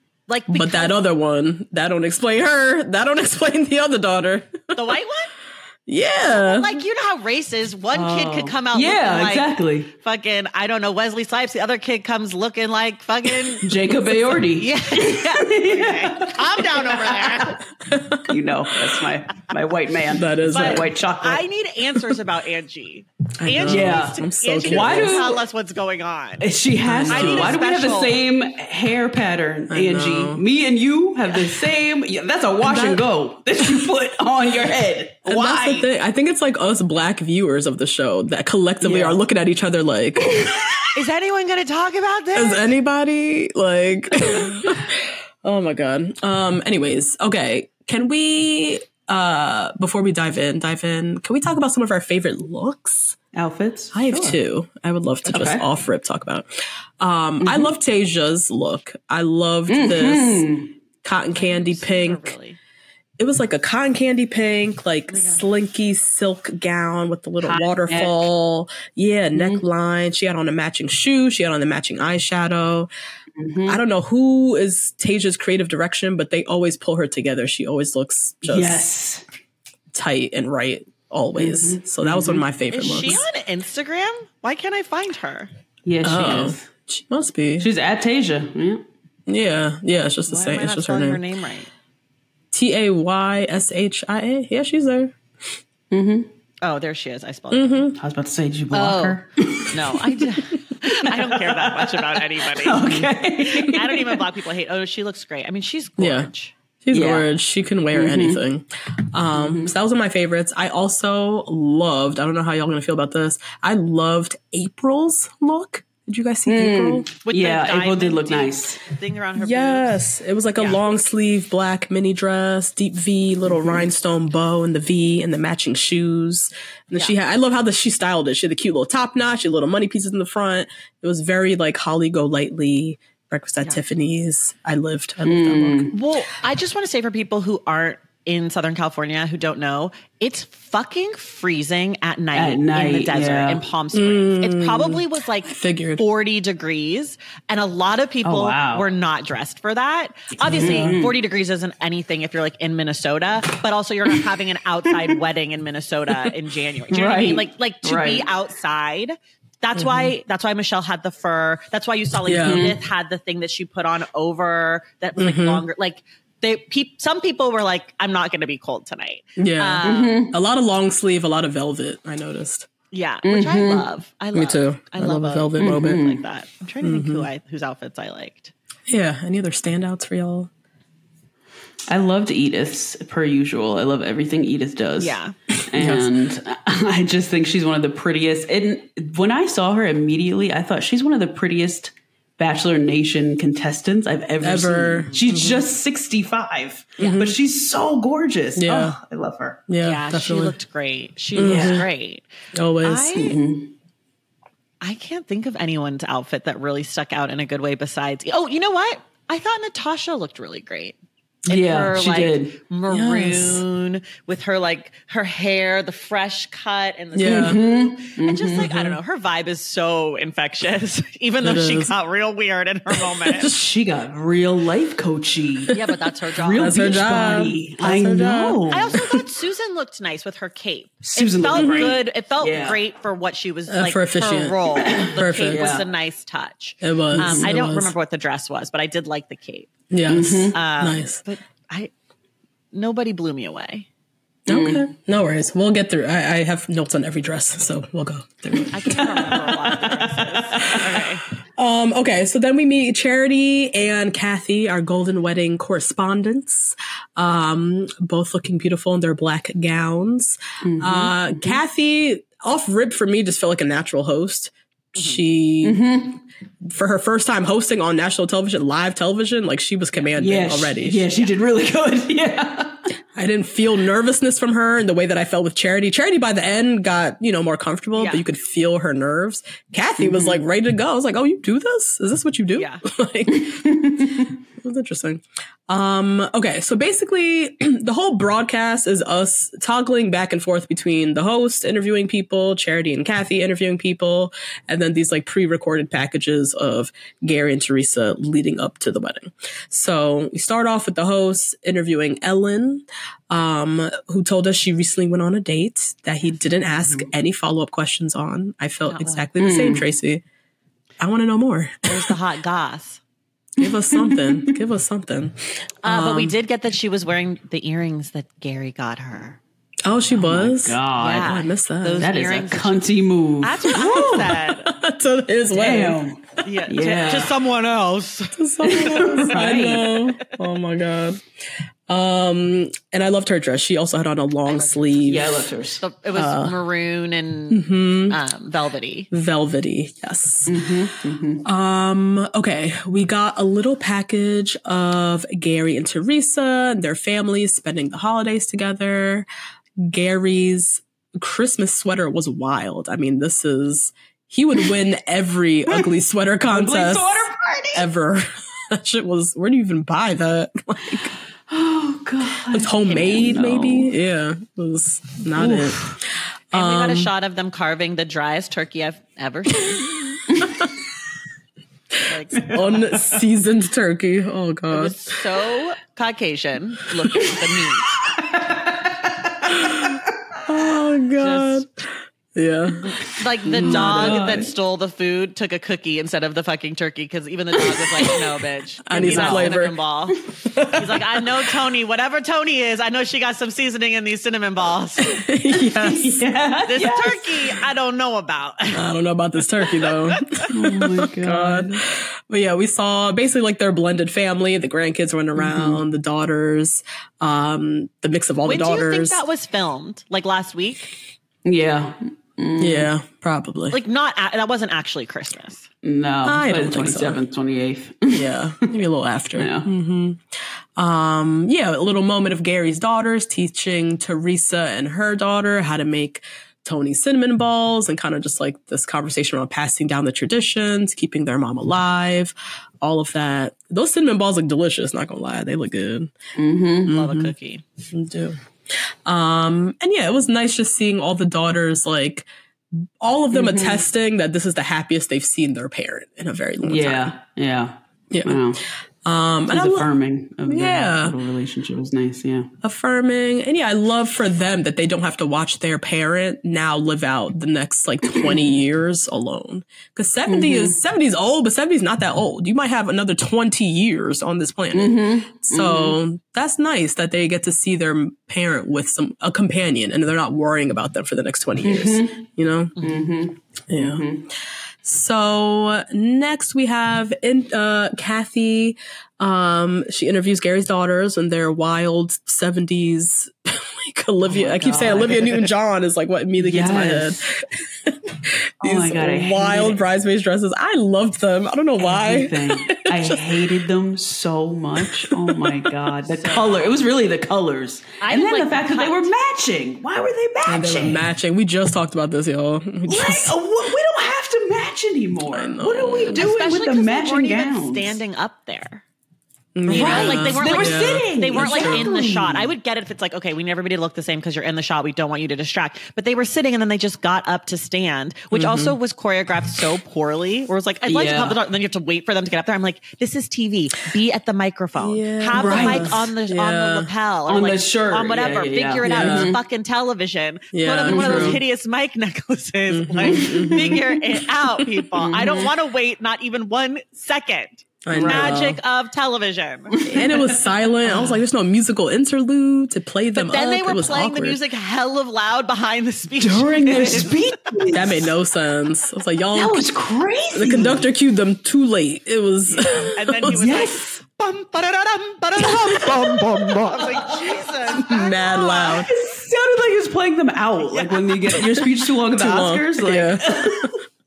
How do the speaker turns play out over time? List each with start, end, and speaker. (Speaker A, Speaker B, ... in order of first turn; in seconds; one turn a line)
Speaker A: 0.3-1.0
Speaker B: 0.5-5.0
Speaker A: 4.7-5.3
Speaker B: 5.9-6.8
Speaker A: 6.2-13.7
Speaker C: 7.9-9.9
Speaker C: 13.6-17.6
Speaker A: 14.4-17.5
Speaker B: 17.8-18.3
Speaker C: 18.3-21.4
Speaker B: 20.1-20.9
Speaker A: 20.4-26.4
Speaker B: 23.4-25.3
Speaker C: 23.6-25.4
Speaker C: 26.4-35.9
Speaker B: 26.8-27.6
Speaker A: 27.1-28.2
Speaker B: 29.7-30.4
Speaker B: 32.6-33.0
Speaker B: 33.6-33.9
Speaker B: 35.2-40.3
Speaker C: 38.8-39.2
Speaker C: 40.2-40.7
Speaker A: 40.9-42.6
Speaker B: 42.3-53.2
Speaker C: 53.3-54.4
Speaker B: 53.9-56.5
Speaker C: 55.3-55.6
Speaker B: 57.0-60.5
Speaker C: 57.4-57.7
Speaker C: 59.7-60.7
Speaker B: 61.0-62.3
Speaker A: 61.3-62.6
Speaker B: 63.2-72.9
Speaker A: 65.1-65.5
Speaker C: 67.4-68.3
Speaker C: 69.3-69.6
Speaker C: 73.4-73.8
Speaker B: 73.7-78.9
Speaker C: 78.4-79.2
Speaker B: 79.9-83.2
Speaker C: 81.4-82.4
Speaker A: 82.7-85.5
Speaker C: 85.8-86.7
Speaker B: 86.0-87.7
Speaker C: 87.6-88.8
Speaker B: 89.3-91.2
Speaker A: 90.2-91.7
Speaker B: 92.5-95.1
Speaker C: 95.9-96.3
Speaker A: 96.6-97.9
Speaker B: 97.5-98.0
Speaker C: 98.0-99.7
Speaker A: 98.7-106.5
Speaker C: 101.3-104.2
Speaker B: 106.0-106.3
Speaker B: 106.8-117.1
Speaker C: 106.9-107.3
Speaker C: 107.9-108.4
Speaker C: 109.3-109.7
Speaker C: 116.5-118.8
Speaker A: 117.2-120.9
Speaker B: 119.3-135.9
Speaker C: 135.2-135.9
Speaker A: 135.9-170.2
Speaker C: 142.3-143.6
Speaker B: 143.9-146.0
Speaker C: 148.2-148.9
Speaker C: 150.4-151.2
Speaker B: 150.5-151.0
Speaker C: 156.9-158.2
Speaker B: 159.8-160.1
Speaker B: 162.2-162.8
Speaker C: 162.3-162.8
Speaker B: 165.2-165.6
Speaker B: 169.4-172.7
Speaker C: 169.8-170.3
Speaker A: 172.9-178.5
Speaker C: 173.2-173.9
Speaker B: 174.3-176.0
Speaker C: 175.6-176.2
Speaker B: 176.8-177.3
Speaker B: 178.9-180.5
Speaker C: 181.9-185.2
Speaker A: 185.0-185.3
Speaker B: 185.7-186.1
Speaker C: 185.7-199.6
Speaker B: 194.4-195.7
Speaker A: 195.1-195.4
Speaker B: 197.0-197.3
Speaker B: 198.6-199.0
Speaker B: 199.7-200.6
Speaker A: 199.8-202.3
Speaker B: 201.3-201.9
Speaker C: 201.4-201.8
Speaker B: 202.5-203.2
Speaker A: 202.8-203.4
Speaker C: 203.1-203.7
Speaker A: 204.8-210.9
Speaker A: 211.5-223.5
Speaker C: 211.5-212.5
Speaker B: 212.9-213.6
Speaker B: 217.1-217.6
Speaker C: 217.2-219.0
Speaker B: 221.4-221.9
Speaker B: 223.1-223.5
Speaker C: 223.4-225.8
Speaker A: 225.7-227.5
Speaker C: 226.4-229.0
Speaker B: 226.6-229.1
Speaker A: 228.7-241.9
Speaker C: 231.0-232.8
Speaker B: 231.5-232.0
Speaker B: 233.7-235.7
Speaker C: 234.8-235.8
Speaker B: 236.8-237.9
Speaker C: 237.1-237.5
Speaker B: 239.9-241.2
Speaker C: 240.1-240.6
Speaker A: 242.7-243.8
Speaker B: 244.5-249.5
Speaker C: 244.5-244.9
Speaker A: 248.7-251.2
Speaker C: 248.9-250.8
Speaker B: 251.6-265.8
Speaker C: 260.6-261.5
Speaker A: 264.9-265.2
Speaker C: 265.6-266.2
Speaker B: 266.7-271.1
Speaker C: 270.2-272.9
Speaker A: 271.1-271.3
Speaker B: 273.1-310.2
Speaker A: 277.9-278.2
Speaker C: 280.0-280.4
Speaker A: 282.5-282.8
Speaker C: 283.5-284.2
Speaker A: 306.8-307.1
Speaker A: 308.9-309.3
Speaker C: 309.4-309.8
Speaker B: 311.0-312.2
Speaker A: 311.9-313.0
Speaker B: 313.6-316.4
Speaker C: 314.0-314.4
Speaker A: 315.8-319.4
Speaker B: 319.9-322.1
Speaker C: 320.1-321.3
Speaker A: 320.9-322.8
Speaker C: 322.0-324.0
Speaker A: 323.4-324.7
Speaker B: 323.7-326.0
Speaker C: 325.5-327.3
Speaker A: 326.4-330.0
Speaker B: 328.3-331.2
Speaker C: 328.8-329.9
Speaker B: 331.9-335.5
Speaker A: 334.4-335.2
Speaker C: 335.1-335.8
Speaker A: 335.7-339.1
Speaker B: 336.1-336.6
Speaker B: 337.5-338.2
Speaker B: 339.1-340.9
Speaker C: 340.5-341.4
Speaker B: 341.4-349.3
Speaker B: 349.8-361.1
Speaker C: 356.5-357.9
Speaker C: 361.5-363.9
Speaker B: 362.5-367.1
Speaker A: 362.8-363.2
Speaker C: 365.3-366.0
Speaker A: 366.5-370.2
Speaker A: 372.1-372.9
Speaker B: 372.3-375.0
Speaker A: 374.7-377.9
Speaker C: 378.1-380.0
Speaker B: 380.4-382.9
Speaker A: 381.2-381.5
Speaker A: 383.1-395.2
Speaker C: 383.4-384.5
Speaker B: 383.5-384.2
Speaker B: 388.8-389.8
Speaker C: 389.0-389.5
Speaker B: 390.4-391.1
Speaker B: 395.0-396.2
Speaker C: 395.8-397.3
Speaker A: 396.7-398.8
Speaker B: 398.7-409.2
Speaker A: 399.6-400.4
Speaker C: 400.5-401.8
Speaker C: 405.4-405.8
Speaker A: 408.4-410.9
Speaker C: 411.4-412.9
Speaker B: 412.6-413.8
Speaker A: 413.7-415.6
Speaker C: 415.8-418.3
Speaker B: 416.2-417.2
Speaker B: 418.1-420.2
Speaker C: 419.4-419.7
Speaker B: 420.8-436.1
Speaker C: 436.4-436.9
Speaker B: 436.9-437.3
Speaker A: 436.9-437.6
Speaker B: 437.9-438.4
Speaker B: 439.1-442.3
Speaker B: 443.0-447.2
Speaker C: 443.3-443.8
Speaker C: 446.6-448.6
Speaker B: 448.1-449.9
Speaker C: 449.5-452.5
Speaker B: 450.5-451.1
Speaker B: 452.6-472.8
Speaker C: 460.3-460.8
Speaker C: 464.7-466.0
Speaker C: 471.6-472.2
Speaker C: 472.8-474.3
Speaker B: 473.7-474.1
Speaker B: 474.8-493.5
Speaker A: 484.2-485.1
Speaker C: 484.9-485.1
Speaker C: 486.4-487.2
Speaker C: 488.6-489.8
Speaker C: 491.8-501.0
Speaker B: 494.8-495.6
Speaker A: 496.1-496.8
Speaker A: 498.0-499.1
Speaker B: 500.4-503.4
Speaker C: 502.9-508.0
Speaker B: 505.3-506.2
Speaker A: 506.1-508.8
Speaker B: 509.6-511.9
Speaker A: 509.7-539.8
Speaker C: 509.7-512.5
Speaker B: 518.3-518.8
Speaker C: 520.9-521.4
Speaker B: 524.8-526.9
Speaker C: 525.4-526.1
Speaker C: 527.3-529.4
Speaker B: 528.8-529.3
Speaker B: 530.5-531.4
Speaker C: 530.9-531.4
Speaker B: 532.7-534.6
Speaker C: 533.0-533.6
Speaker C: 535.0-535.5
Speaker B: 537.8-538.6
Speaker C: 537.9-538.5
Speaker C: 539.8-540.2
Speaker B: 539.8-544.4
Speaker C: 540.9-541.2
Speaker A: 543.1-547.2
Speaker C: 546.2-548.1
Speaker B: 547.7-549.7
Speaker C: 549.3-550.9
Speaker B: 550.3-553.4
Speaker A: 552.4-558.8
Speaker C: 553.3-553.9
Speaker C: 555.5-557.0
Speaker B: 557.8-558.9
Speaker C: 557.8-563.7
Speaker A: 560.6-561.2
Speaker B: 562.1-563.7